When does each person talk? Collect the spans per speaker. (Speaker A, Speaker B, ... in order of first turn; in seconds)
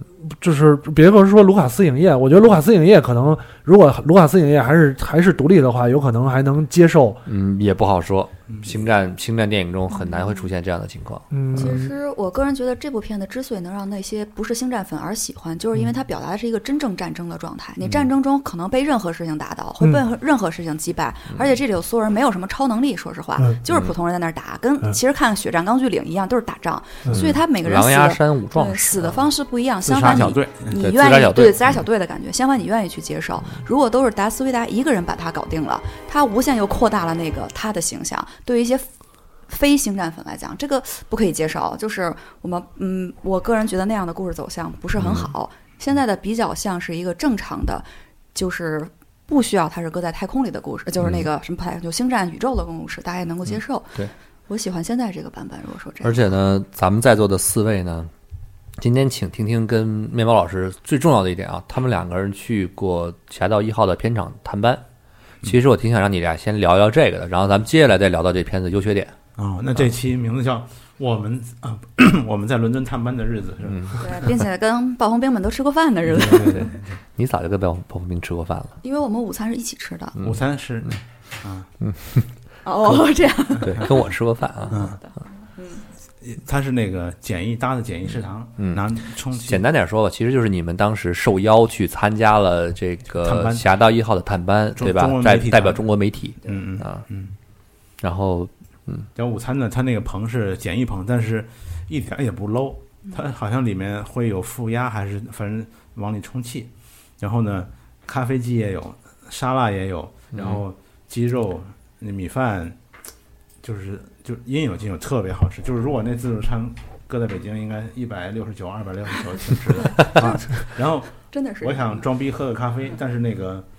Speaker A: 0.2-7.2, 11.3-11.9
Speaker B: 7.2-11.2, 27.1-29.2, 30.7-31.8, 45.0-45.3, 56.0-58.1, 58.8-64.8, 65.4-69.1, 73.6-74.0, 76.2-78.8, 80.2-80.4, 81.8-82.3, 83.6-84.8, 88.6-97.0, 98.0-99.1, 110.3-110.6
Speaker C: 8.5-8.8, 29.8-30.8, 69.4-74.2, 80.2-81.7, 84.7-85.0, 86.2-89.6, 93.2-93.6, 94.8-95.8, 96.4-97.3, 99.1-112.8, 113.6-123.6
Speaker D: 9.9-10.4, 11.5-38.9, 39.5-56.4, 74.0-76.7, 78.8-80.1, 82.6-83.9, 84.6-85.8, 119.8-120.4, 121.2-122.1